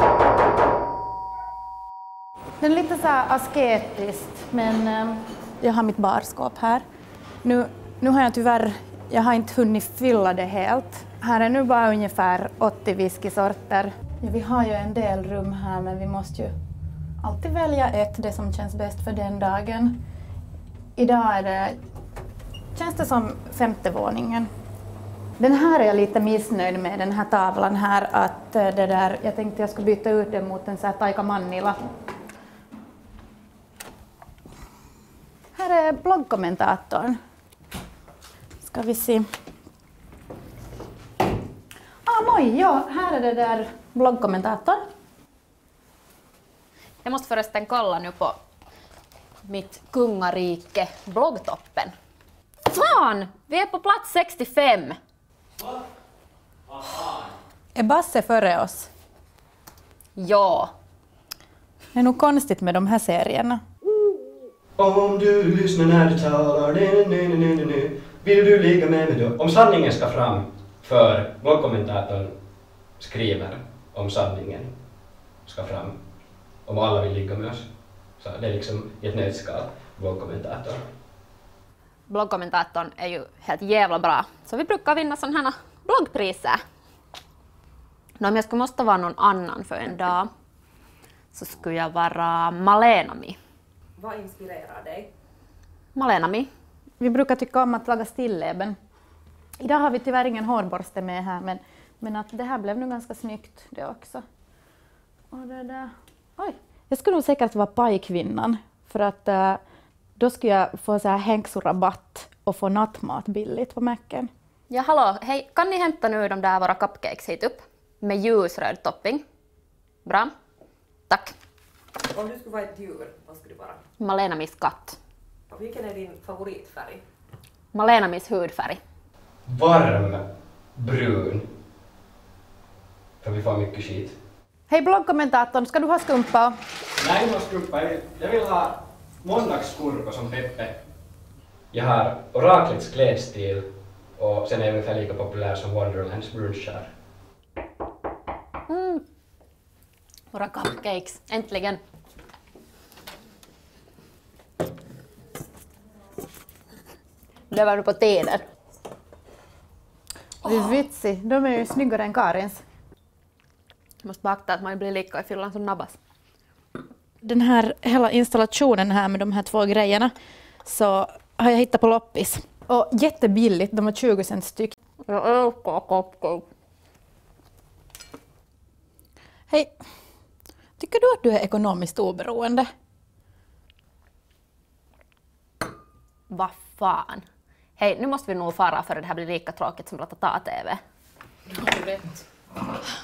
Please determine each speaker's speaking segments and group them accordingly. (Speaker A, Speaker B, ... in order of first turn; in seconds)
Speaker A: 2.6-6.8, 7.4-16.5, 17.2-19.9, 20.9-21.8, 22.7-24.5, 25.4-31.8, 35.5-37.2, 38.6-39.2, 42.0-44.8, 57.7-58.9, 61.9-63.6, 97.0-98.8, 99.6-104.2, 105.3-109.6, 110.2-114.3, 134.7-136.5, 160.4-162.6, 167.2-170.1, 170.6-174.7, 180.8-182.7
Speaker B: 47.0-48.4, 49.5-51.9, 52.7-55.0, 60.1-60.7, 82.1-86.6, 88.2-90.3, 91.3-93.4, 95.9-96.5, 114.7-119.2, 120.0-120.3, 121.1-121.3, 124.0-125.0, 127.7-128.8, 148.7-149.0, 150.3-151.8, 157.5-158.4, 160.5-160.7, 164.0-166.0, 175.1-176.4, 186.3-187.2, 187.8-190.8
Speaker C: 64.8-72.3, 73.0-74.7, 75.5-76.0, 76.7-77.7, 78.2-80.8, 129.5-130.2, 130.8-131.5, 133.2-134.2, 137.0-140.8, 141.7-146.9
Speaker D: 94.0-95.1, 122.1-123.8, 125.5-127.0